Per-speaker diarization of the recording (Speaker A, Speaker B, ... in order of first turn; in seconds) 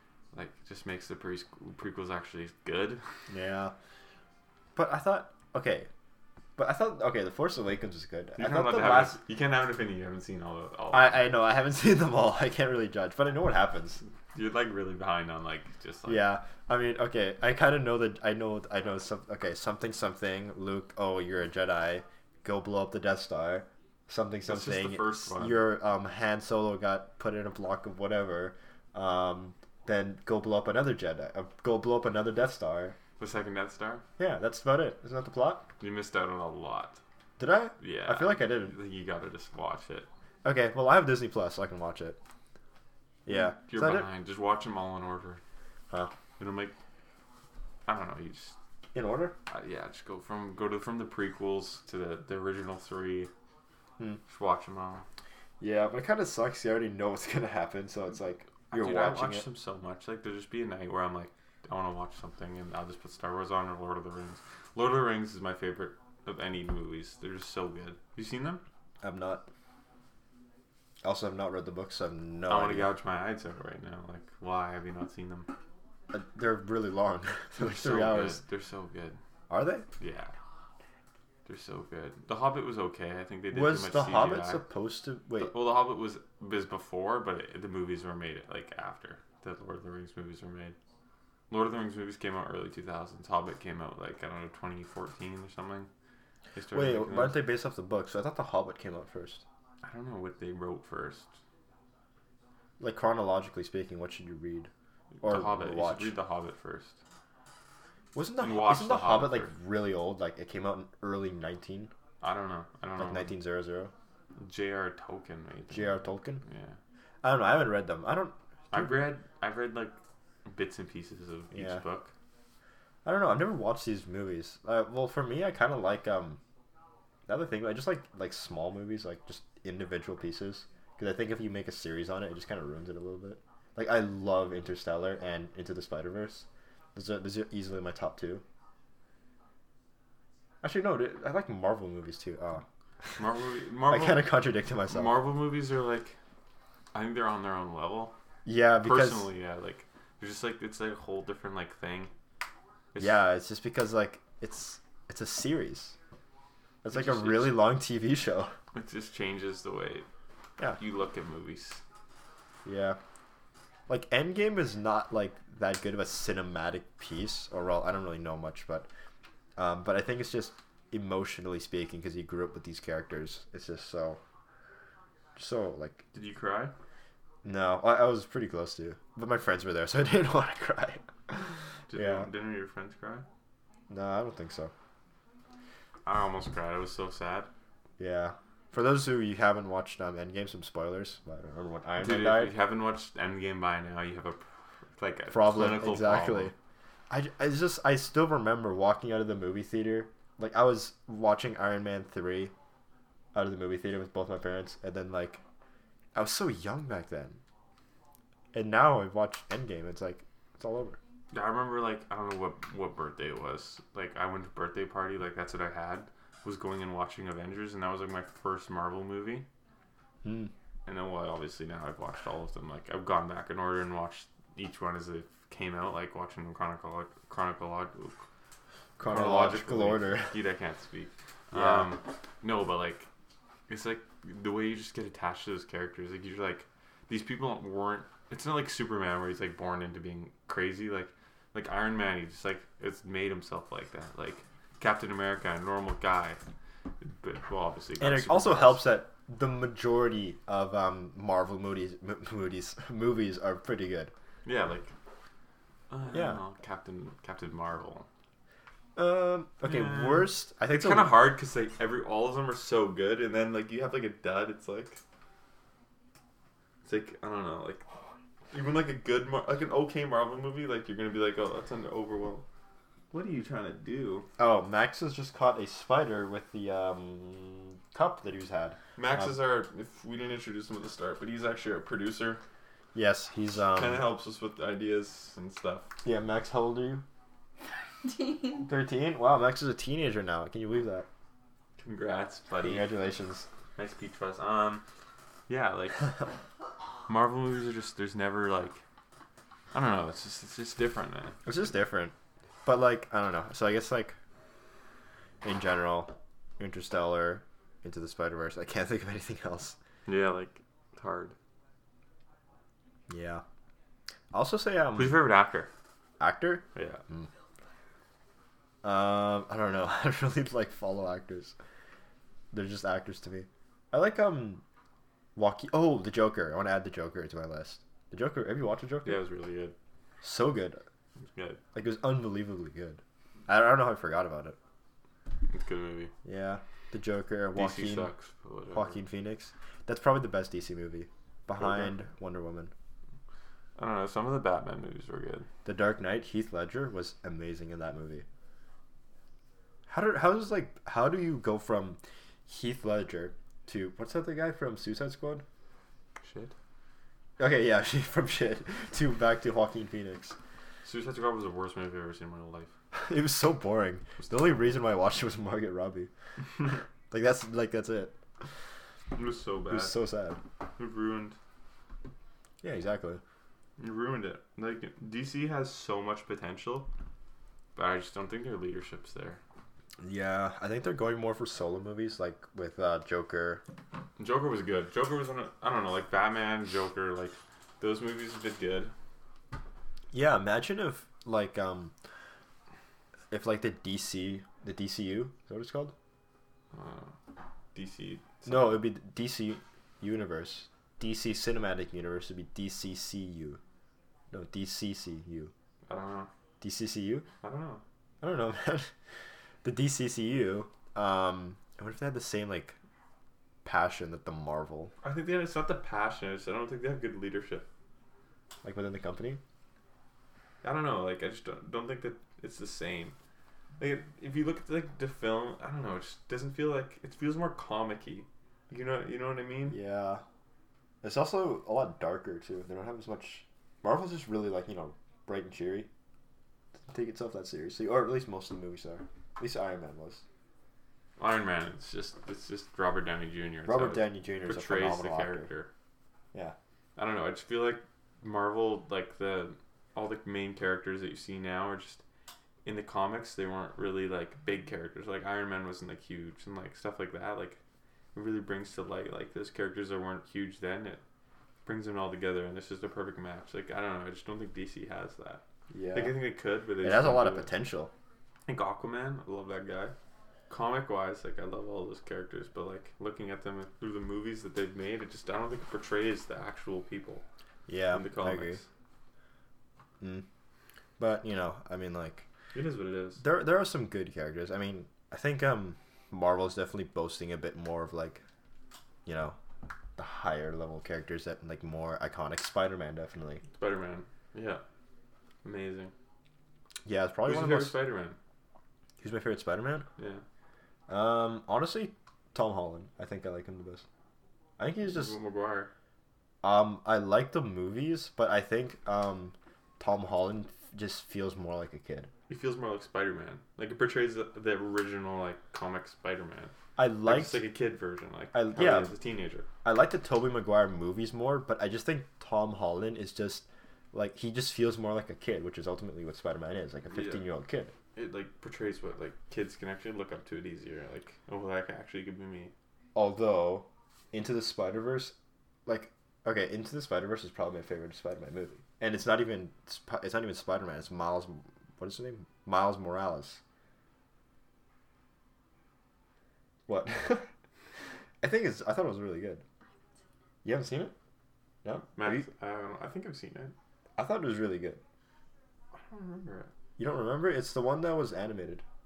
Speaker A: 0.3-3.0, 8.4-11.3, 14.3-16.2, 24.4-25.6, 33.2-34.0, 35.8-37.0, 37.8-40.1, 43.3-45.4, 46.4-46.7, 47.9-48.5, 49.5-53.3, 54.3-55.0, 58.7-68.6, 72.5-75.5, 77.6-79.2, 80.0-80.3, 81.5-84.6, 85.4-90.8, 91.5-95.9, 96.5-97.4, 99.8-101.3, 105.2-107.0, 108.4-109.5, 112.2-113.3, 114.4-116.8, 118.7-122.1, 143.2-144.3, 144.9-146.2, 146.9-148.1, 148.8-152.1, 152.9-153.2, 156.9-157.6, 158.7-160.1, 160.8-161.8, 176.1-176.7, 181.9-183.2, 186.1-187.5, 192.0-194.4, 195.0-196.5, 211.3-219.4, 220.9-228.2, 229.0-233.1, 233.7-246.4, 247.0-248.8, 254.4-254.9, 255.9-258.1, 259.6-265.0, 266.8-267.9, 268.5-272.4, 273.1-274.3, 279.0-282.4, 283.7-285.9, 291.8-292.9, 293.8-294.8, 295.5-296.1, 297.1-298.8, 299.7-301.4, 310.1-311.3, 314.9-315.7, 316.7-317.0, 329.0-329.7, 331.3-331.6, 335.5-336.1, 337.5-339.0, 341.6-341.9, 343.8-345.5, 356.2-356.5, 360.8-362.7, 369.1-369.9, 370.8-371.4, 373.8-376.9, 377.7-379.4, 384.2-388.9, 396.7-397.1, 397.7-398.8, 405.9-406.3, 407.4-407.8, 415.0-417.6, 420.6-423.1, 423.8-429.8, 441.2-445.7, 447.0-452.0, 452.6-457.6, 458.1-461.0, 461.6-467.5, 468.5-469.9, 470.5-477.2, 477.9-478.6, 482.5-483.2, 493.6-494.6, 495.4-495.9, 497.2-498.2, 500.0-500.2, 504.8-505.7, 512.3-516.5, 517.0-519.5, 526.9-527.2, 527.9-532.5, 551.9-553.5, 555.7-556.5
Speaker B: 3.3-3.7, 4.8-5.9, 6.6-9.2, 10.9-14.0, 16.1-33.0, 34.2-35.7, 37.4-38.7, 40.4-42.2, 43.2-44.1, 48.9-49.3, 55.6-59.5, 69.0-69.5, 71.0-72.9, 76.1-78.4, 79.5-79.8, 83.5-85.5, 96.7-99.4, 102.8-104.7, 105.2-106.1, 108.1-111.9, 113.0-113.9, 115.7-116.4, 117.2-119.0, 121.5-121.8, 123.0-126.4, 127.3-138.4, 140.6-142.6, 143.9-145.1, 148.4-149.3, 153.0-155.9, 156.8-158.5, 162.6-163.0, 163.9-168.9, 169.6-174.2, 175.4-176.0, 177.4-182.3, 183.9-184.7, 188.0-192.5, 195.3-196.5, 197.1-202.5, 203.3-205.4, 206.1-207.4, 208.5-211.0, 220.2-220.5, 229.0-230.3, 231.5-231.9, 248.0-254.1, 256.1-256.4, 258.9-261.2, 274.4-279.3, 282.9-284.0, 286.0-287.0, 288.4-291.1, 292.6-293.5, 301.4-302.1, 302.6-304.1, 305.4-309.8, 313.1-313.4, 314.3-315.2, 316.2-317.3, 318.8-321.5, 322.5-324.6, 325.4-329.2, 330.2-330.8, 331.7-334.6, 336.2-338.1, 338.7-342.7, 345.6-348.2, 349.9-355.4, 357.4-360.4, 362.9-366.1, 367.1-368.2, 369.7-370.4, 372.6-373.2, 380.0-383.6, 390.1-391.9, 393.3-395.9, 398.4-403.6, 404.3-405.5, 406.6-407.2, 408.2-408.9, 409.6-412.7, 413.6-414.9, 418.6-419.4, 429.7-430.2, 431.0-435.9, 436.9-440.2, 443.7-445.5, 465.7-466.2, 466.8-467.9, 477.7-478.6, 481.0-482.2, 483.2-488.2, 489.1-489.4, 490.0-493.4, 496.8-497.7, 499.0-499.9, 500.9-503.8, 504.6-505.1, 506.4-512.1, 516.8-517.4, 518.3-518.9, 519.6-527.7, 532.9-535.1, 535.6-543.4, 546.7-547.3, 548.2-549.4, 550.4-550.9, 551.6-552.3, 554.0-554.8, 556.8-558.6